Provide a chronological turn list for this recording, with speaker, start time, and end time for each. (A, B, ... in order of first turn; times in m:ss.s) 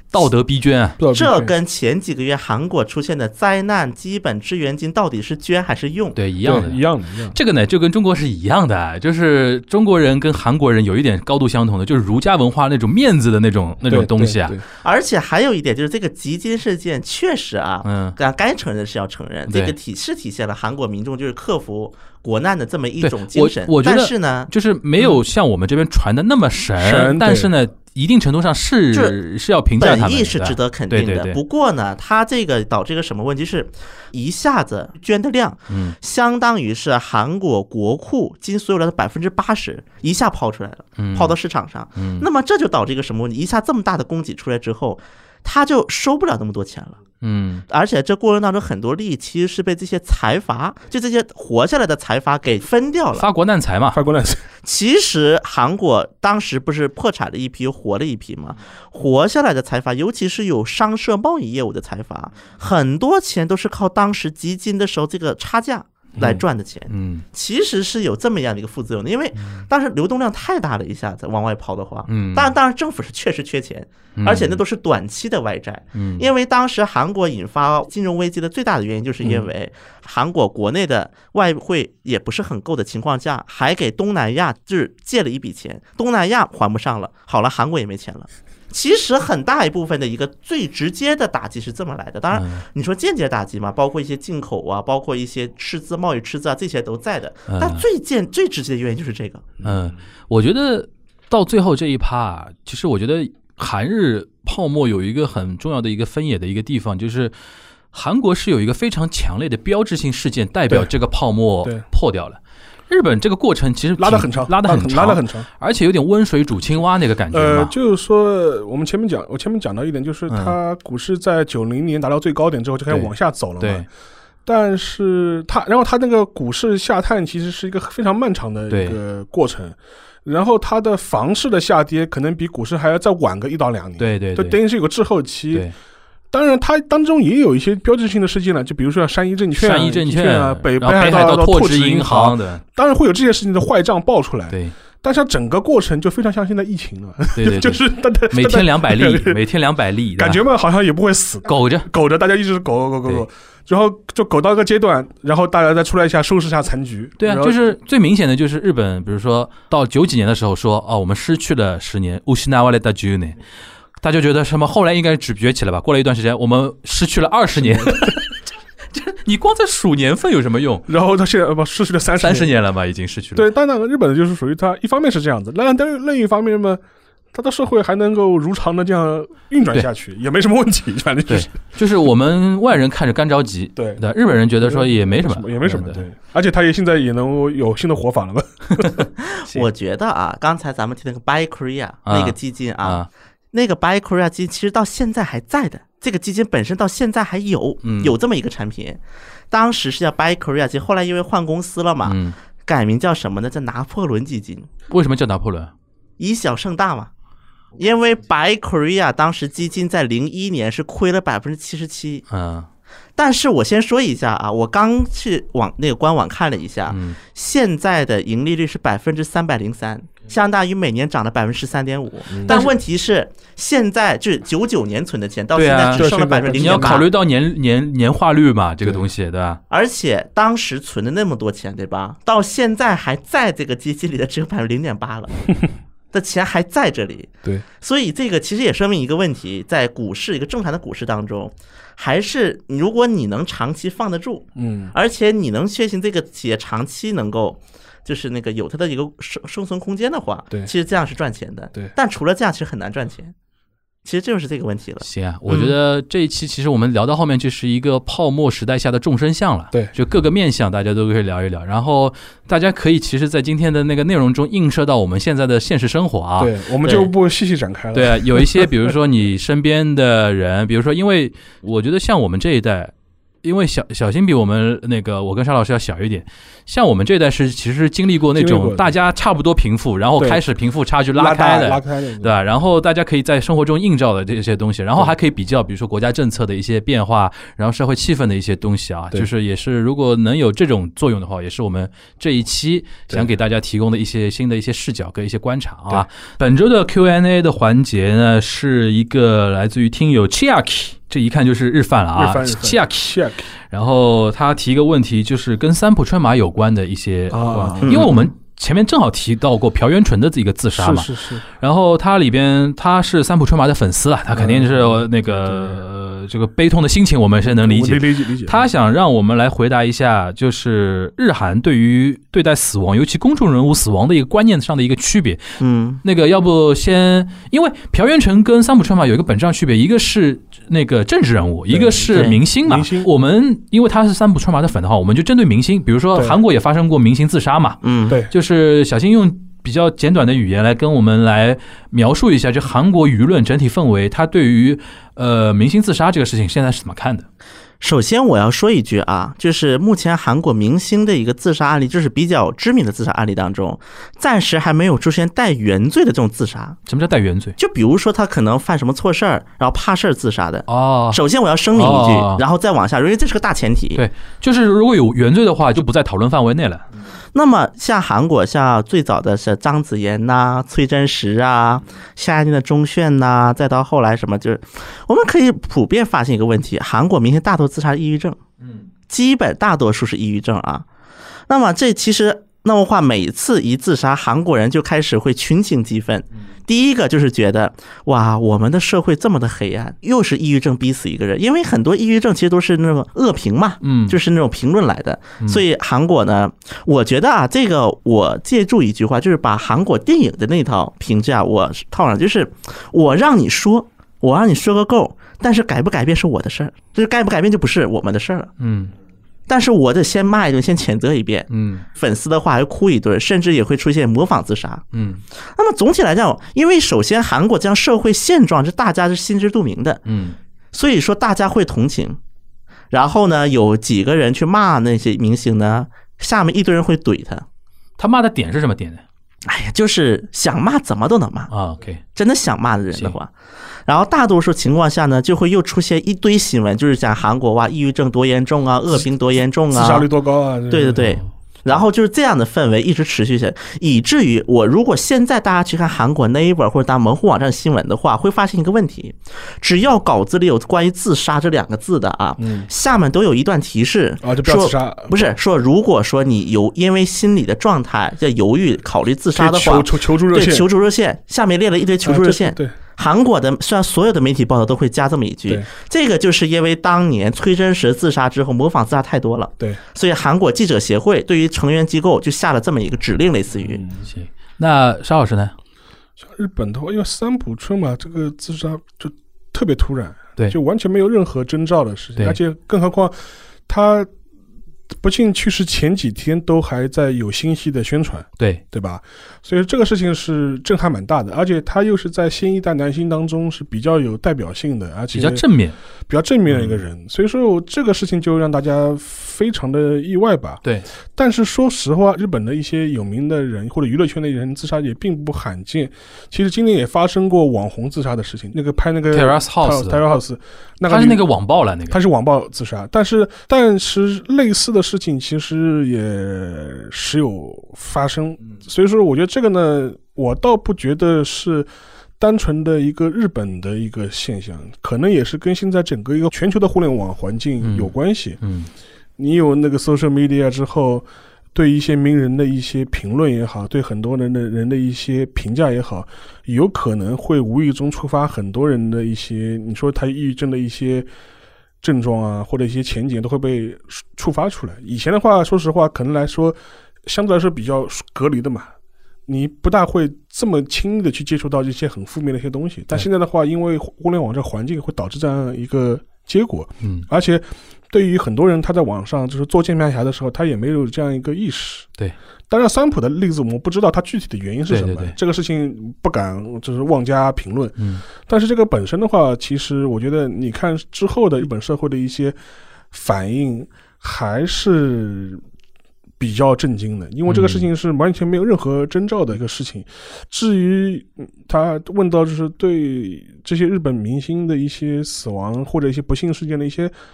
0:00.1-0:01.0 A
0:01.0-0:01.5 B
0:01.1-0:06.2 C
0:06.2-0:06.8 A
0:06.4-0:07.4 B
0:07.3-0:14.6 A
0:13.9-0:14.6 B
0:14.8-0:24.5 C
0:17.8-0:18.2 A
0:19.5-0:19.8 A
0:23.0-0:31.4 A
0:26.8-0:27.5 B
0:28.9-0:29.2 C
0:29.8-0:47.0 C
0:35.7-0:36.0 A
0:41.0-0:41.4 A
0:42.0-0:42.2 A
0:47.2-0:47.6 A
0:47.7-0:53.3 C
0:53.2-0:54.0 A
0:53.9-0:54.4 B
0:54.6-1:39.6 C
1:06.2-1:07.2 A
1:12.1-1:12.5 A
1:14.2-1:14.6 A
1:16.0-1:16.3 A
1:32.3-1:32.6 A
1:37.5-1:37.8 A
1:39.6-1:47.3 A
1:47.9-1:57.7 A
1:54.0-1:55.5 B
1:57.3-2:03.9 B
2:00.3-2:00.6 A
2:02.9-2:03.9 A
2:04.5-2:15.7 B
2:08.7-2:09.0 A
2:14.0-2:14.6 A
2:16.3-2:29.4 B
2:19.6-2:22.6 A
2:27.4-2:30.4 A
2:30.2-2:37.6 B
2:31.5-2:31.9 A
2:37.2-2:43.4 A
2:44.0-2:48.4 A
2:47.6-2:48.2 B
2:48.9-2:50.9 A
2:50.9-2:52.5 B
2:52.2-2:53.5 A
2:53.4-2:56.8 B
2:57.3-3:01.5 B
3:01.3-3:06.0 A
3:03.8-3:04.0 B
3:04.6-3:09.0 B
3:09.2-3:24.7 C
3:12.1-3:13.1 A
3:17.8-3:18.2 A
3:22.0-3:22.4 A
3:24.9-3:25.7 A
3:26.2-3:27.1 C
3:27.8-3:32.2 C
3:32.3-3:32.7 A
3:33.2-3:47.1 C
3:36.9-3:37.2 A
3:42.3-3:42.6 B
3:45.6-3:49.6 A
3:45.9-3:47.1 B
3:49.7-3:55.4 C
3:56.1-4:13.3 C
4:04.6-4:04.9 B
4:14.0-4:15.8 C
4:15.0-4:27.1 A
4:26.4-4:29.0 B
4:27.9-5:03.2 A
4:38.4-4:39.0 B
4:41.1-4:42.3 B
5:02.2-5:03.5 B
5:03.7-5:47.3 A
5:07.3-5:08.2 B
5:07.8-5:08.1 C
5:10.8-5:11.4 B
5:14.3-5:15.8 B
5:17.4-5:18.6 B
5:25.6-5:26.0 C
5:31.7-5:33.1 B
5:32.1-5:32.4 C
5:37.8-5:38.2 C
5:47.8-5:56.8 C
5:56.9-5:57.6 A
5:57.6-6:04.0 C
6:00.7-6:01.2 A
6:01.7-6:02.4 A
6:04.0-6:06.8 A
6:07.3-6:18.4 C
6:19.1-6:20.9 C
6:21.5-6:48.5 C
6:33.8-6:34.2 A
6:48.6-6:48.9 A
6:49.5-6:54.8 C
6:51.5-6:51.8 A
6:54.9-6:55.2 A
6:55.6-7:00.0 C
7:00.1-7:00.4 A
7:00.7-7:02.2 C
7:02.9-7:07.5 C
7:08.0-7:09.0 A
7:09.5-7:11.5 C
7:11.5-7:12.0 A
7:12.2-7:13.3 C
7:13.9-7:20.1 C
7:19.7-7:21.2 B
7:20.7-7:53.8 C
7:32.4-7:32.7 B
7:34.2-7:35.2 B
7:39.3-7:40.7 B
7:42.0-7:42.8 B
7:53.6-7:54.0 B
7:54.0-7:55.5 A
7:56.2-8:04.1 B
8:04.9-8:15.4 B
8:15.1-8:15.8 A
8:16.1-8:20.6 B
8:16.5-8:16.8 A
8:21.2-8:31.3 B
8:29.1-8:30.1 A
8:30.9-8:32.0 A
8:31.9-8:41.7 B
8:42.2-8:48.4 B
8:47.6-8:47.9 A
8:48.4-8:48.7 A
8:49.2-9:01.1 B
9:01.8-9:08.7 B
9:09.3-9:21.9 B
9:22.5-9:32.4 B
9:24.7-9:25.2 A
9:27.8-9:28.0 A
9:32.9-9:35.4 B
9:36.2-9:46.9 B
9:37.3-9:37.7 A